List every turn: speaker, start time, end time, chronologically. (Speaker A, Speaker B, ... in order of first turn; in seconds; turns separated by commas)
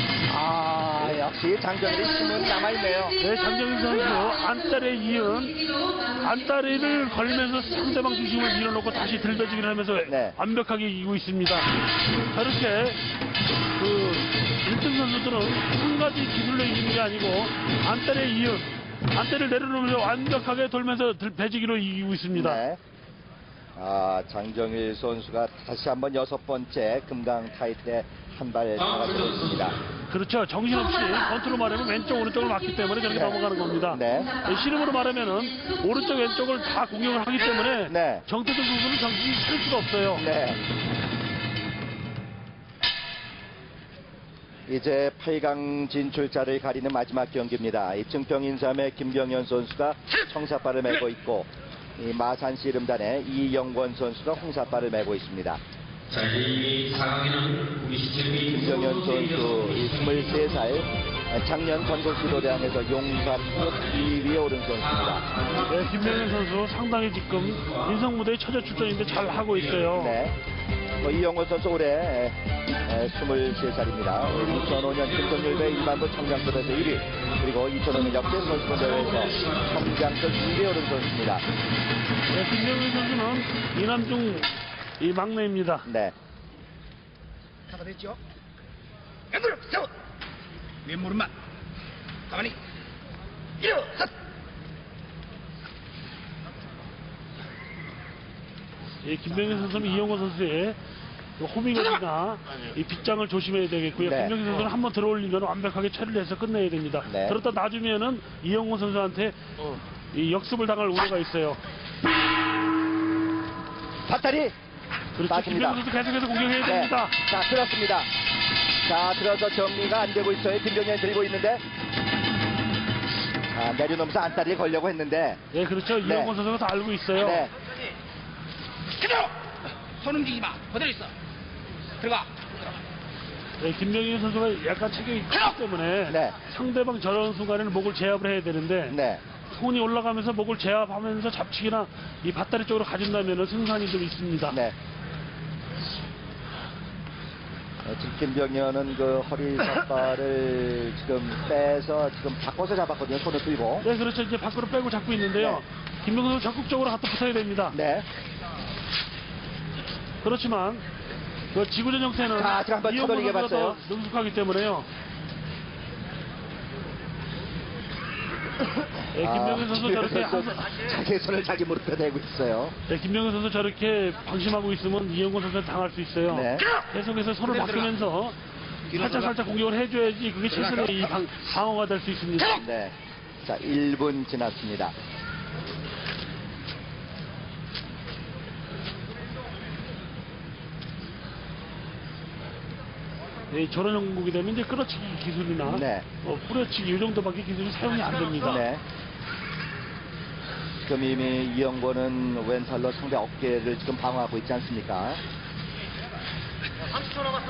Speaker A: 0.3-3.2, Speaker B: 0.4-1.0, Speaker B: 3.2-11.7, Speaker A: 10.1-10.4, Speaker B: 12.3-13.0, Speaker B: 13.8-22.6, Speaker A: 22.3-22.8, Speaker A: 23.8-29.8, Speaker B: 30.1-40.3, Speaker A: 33.1-33.4, Speaker A: 33.9-34.4, Speaker A: 37.9-38.2, Speaker A: 40.2-40.6, Speaker A: 44.7-55.6, Speaker C: 56.1-60.8, Speaker A: 58.5-65.2, Speaker C: 61.9-66.2, Speaker B: 65.7-70.2, Speaker C: 67.5-68.0, Speaker C: 68.9-69.9, Speaker A: 69.9-70.3, Speaker A: 71.0-81.4, Speaker C: 74.3-79.8, Speaker B: 82.3-85.9, Speaker A: 85.9-86.1, Speaker D: 89.4-89.9, Speaker D: 90.9-91.3, Speaker D: 93.6-94.1, Speaker B: 99.0-100.8, Speaker B: 101.4-109.4, Speaker A: 104.0-104.3, Speaker A: 107.1-107.4, Speaker B: 110.1-111.6, Speaker A: 114.1-114.5, Speaker B: 115.2-117.2, Speaker A: 115.3-115.8, Speaker A: 116.6-118.1, Speaker A: 118.8-121.6, Speaker A: 123.5-125.4, Speaker B: 125.5-127.5, Speaker A: 126.0-126.3, Speaker A: 127.2-127.5, Speaker D: 130.0-131.1, Speaker D: 132.0-132.3, Speaker B: 133.6-139.0, Speaker A: 136.1-136.4, Speaker A: 138.9-139.2, Speaker B: 139.5-144.6, Speaker A: 144.5-144.8, Speaker A: 147.8-153.9, Speaker B: 153.8-157.8, Speaker A: 157.7-158.1, Speaker B: 160.2-160.8, Speaker B: 161.5-164.9, Speaker A: 162.3-163.8, Speaker B: 169.1-170.7, Speaker A: 169.1-172.8, Speaker B: 172.9-178.4, Speaker A: 176.3-176.7, Speaker B: 178.9-182.6, Speaker A: 182.6-184.9, Speaker B: 193.5-198.7, Speaker A: 195.6-196.1, Speaker A: 198.5-198.8, Speaker A: 200.8-205.2